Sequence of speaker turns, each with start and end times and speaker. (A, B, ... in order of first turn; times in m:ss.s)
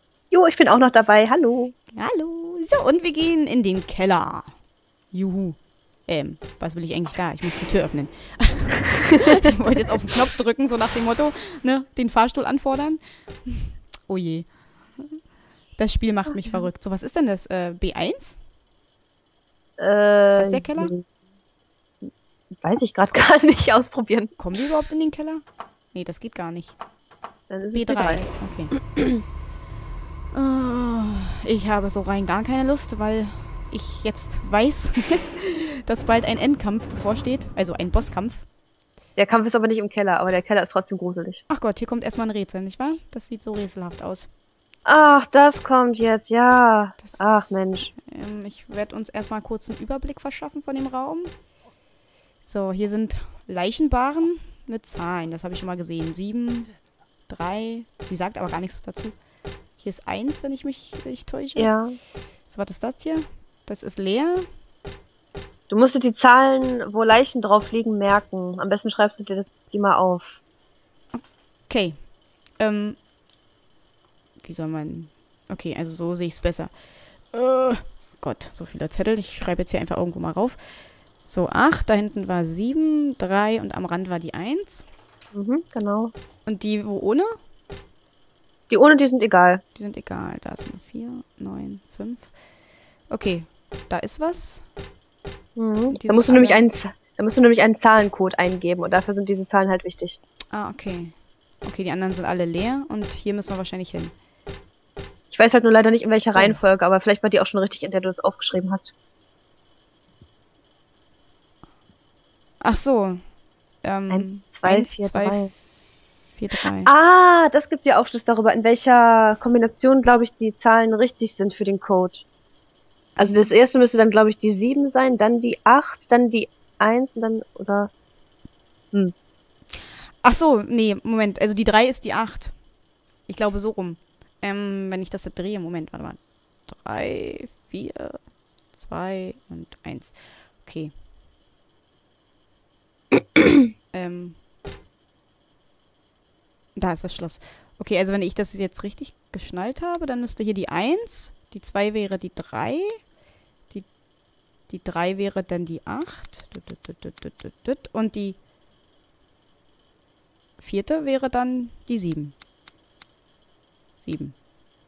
0:00.3-0:01.7 A
0:01.9-0:04.5 B
0:05.1-0:15.2 B
0:15.8-0:18.4 B
0:19.8-0:21.0 A
0:20.3-0:20.9 B
0:22.6-0:24.3 A
0:24.4-0:26.8 B
0:27.5-0:28.3 A
0:27.7-0:28.7 B
0:30.3-0:38.5 B
0:39.2-0:41.4 A
0:41.5-0:44.3 B
0:44.8-0:47.9 A
0:47.0-0:51.3 B
0:52.4-0:56.7 B
0:57.3-0:59.2 B
0:59.8-1:01.7 B
1:01.6-1:02.0 A
1:02.5-1:04.5 B
1:05.7-1:10.4 A
1:11.1-1:13.0 B
1:14.4-1:16.8 B
1:17.3-1:20.6 B
1:21.2-1:24.9 B
1:25.3-1:26.1 A
1:26.5-1:27.3 B
1:28.7-1:29.6 A
1:29.8-1:32.3 B
1:33.1-1:34.6 B
1:35.6-1:40.2 A
1:35.9-1:36.6 B
1:40.5-1:44.1 B
1:45.3-1:48.9 A
1:52.6-1:53.2 B
1:53.8-1:55.4 B
1:54.1-1:55.5 A
1:56.4-1:56.9 B
1:56.8-2:02.2 A
2:03.2-2:03.5 B
2:03.2-2:07.9 A
2:10.2-2:12.6 B
2:13.3-2:20.9 B
2:23.9-2:24.4 B
2:26.8-2:33.1 B
2:34.7-2:38.4 B
2:40.6-2:42.3 B
2:44.0-2:44.3 B